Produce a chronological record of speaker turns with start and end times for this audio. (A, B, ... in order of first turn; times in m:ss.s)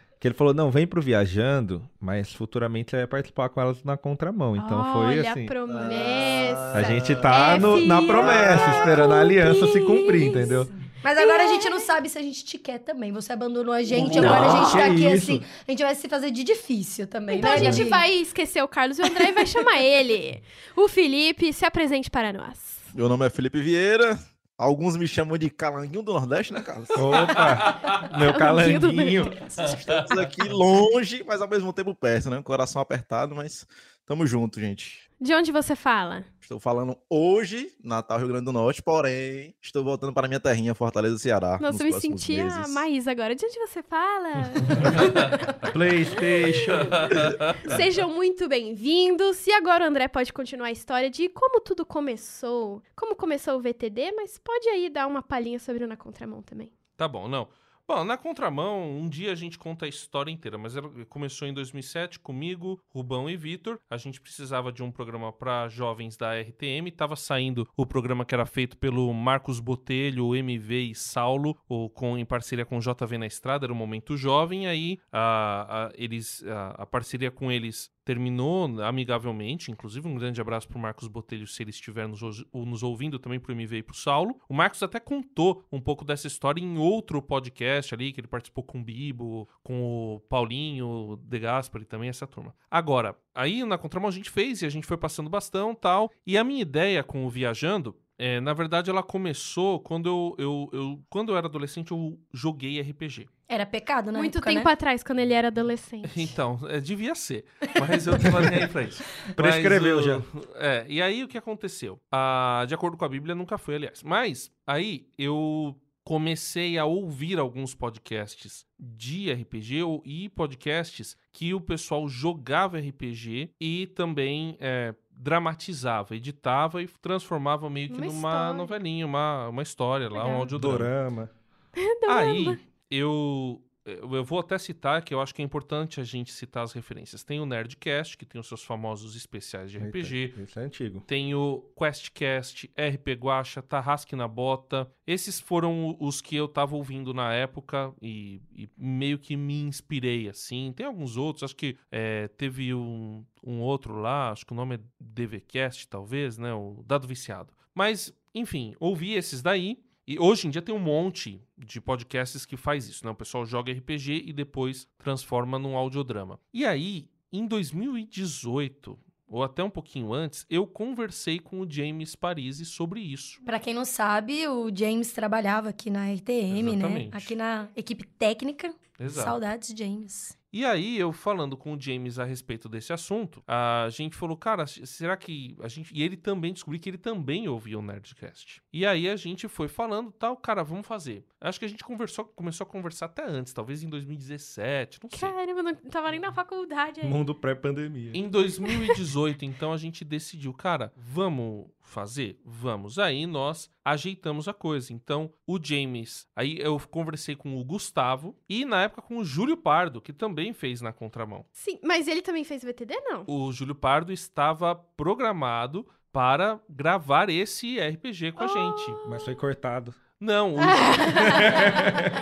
0:00.2-0:05.5 A
0:04.6-0:08.1 B
0:05.7-0:07.3 C
0:05.8-0:06.3 D
0:06.7-0:10.7 A
0:07.3-0:18.0 D
0:08.2-0:08.9 C
0:10.2-0:10.5 B
0:11.2-0:11.9 B
0:13.9-0:15.0 E
0:14.0-0:15.4 A
0:14.4-0:14.8 B
0:17.3-0:22.9 B
0:17.5-0:17.8 A
0:19.1-0:19.6 D
0:22.9-0:27.2 C
0:26.9-0:29.4 A
0:27.1-0:28.1 E
0:28.1-0:29.5 B
0:29.6-0:35.0 C
0:29.6-0:30.1 E
0:35.2-0:36.3 B
0:36.4-0:42.8 C
0:41.6-0:45.4 B
0:44.8-0:45.3 E
0:45.7-0:47.1 A
0:46.8-0:47.7 E
0:47.6-0:56.7 B
0:57.0-1:43.3 E
1:43.5-1:44.7 D
1:44.1-1:46.3 B
1:46.0-2:10.9 E
1:49.3-1:50.2 A
2:07.9-2:08.7 B
2:10.1-2:10.5 B
2:10.5-2:11.3 A
2:11.8-2:12.6 B
2:12.1-2:20.4 E
2:19.8-2:21.0 A
2:21.1-2:53.4 E
2:53.4-3:00.3 D
2:56.5-2:57.3 E
2:59.0-2:59.4 E
3:00.5-3:15.3 E
3:15.1-3:17.2 B
3:17.0-3:18.2 A
3:18.1-3:31.5 E
3:31.6-3:33.3 B
3:33.3-3:39.0 E
3:39.1-3:40.0 A
3:40.2-3:41.6 E
3:40.7-3:41.8 B
3:41.3-3:42.1 A